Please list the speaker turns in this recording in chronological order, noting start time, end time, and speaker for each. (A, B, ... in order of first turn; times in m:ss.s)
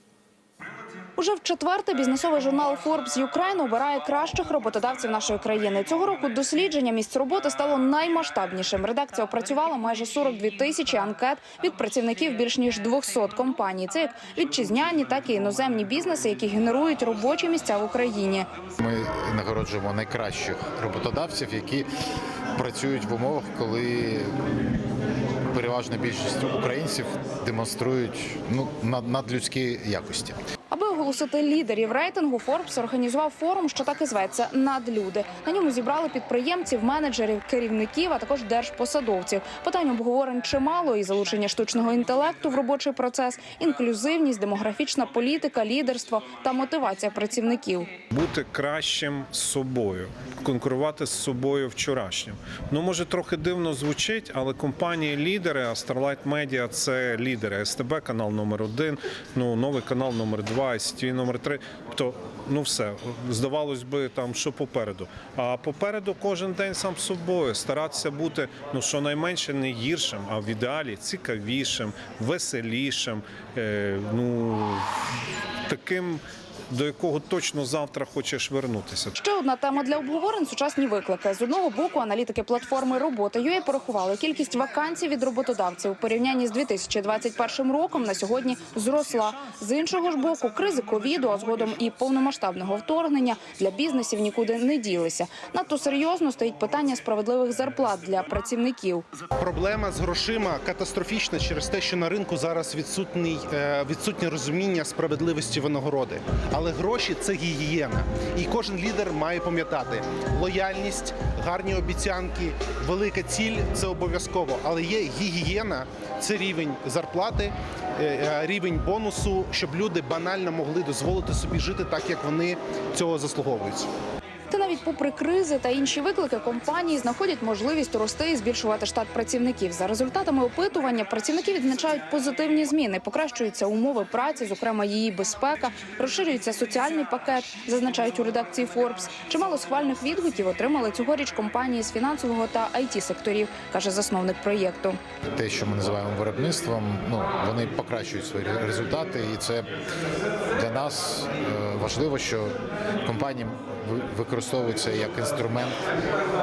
0:01.2-0:18.5 A
0:18.8-0:21.9 B
0:22.6-0:24.4 B
0:25.5-0:30.4 B
0:30.7-0:47.9 A
0:48.1-1:14.8 C
1:15.7-1:19.1 C
1:19.2-1:39.0 A
1:39.4-2:03.9 D
2:04.5-2:25.0 A
2:25.3-2:29.7 B
2:30.5-2:35.8 B